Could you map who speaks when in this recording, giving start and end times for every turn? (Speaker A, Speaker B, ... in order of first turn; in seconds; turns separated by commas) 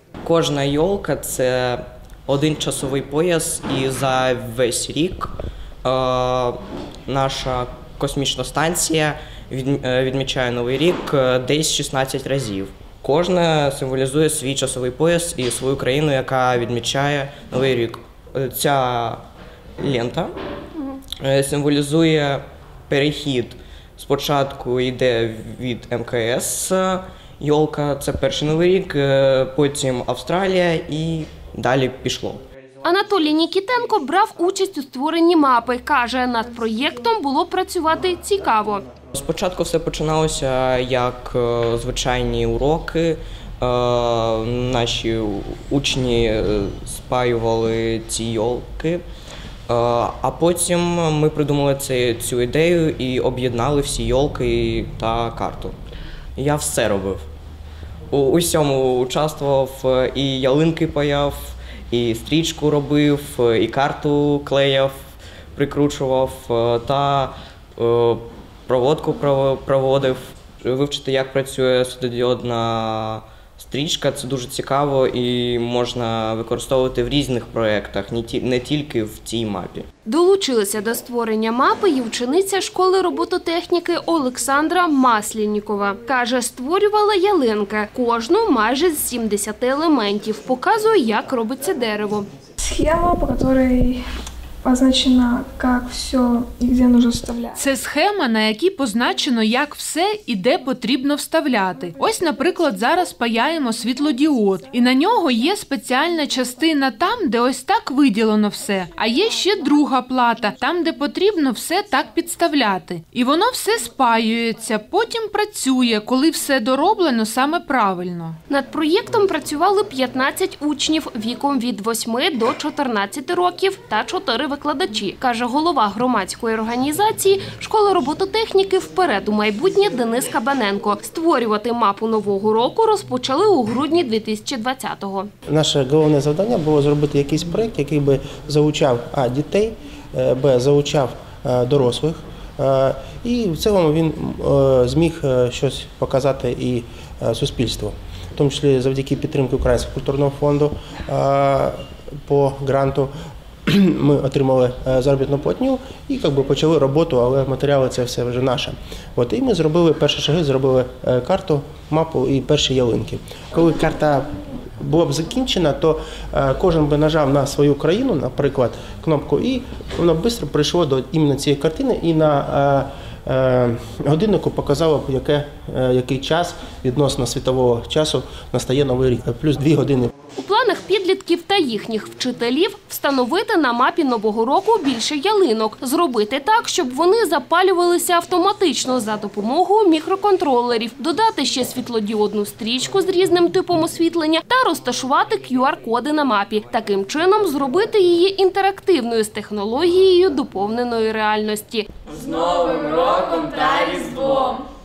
Speaker A: 0.2-19.2, Speaker A: 19.8-20.3, Speaker A: 21.2-32.4, Speaker B: 32.8-38.9, Speaker A: 39.1-49.0, Speaker A: 49.7-55.8, Speaker A: 56.4-57.3, Speaker A: 58.1-64.9, Speaker A: 65.6-79.9, Speaker B: 80.1-92.3, Speaker C: 92.6-94.0, Speaker C: 94.6-97.7, Speaker D: 97.6-118.4, Speaker B: 118.5-135.3, Speaker E: 135.5-153.1, Speaker E: 153.7-180.1, Speaker B: 180.4-204.6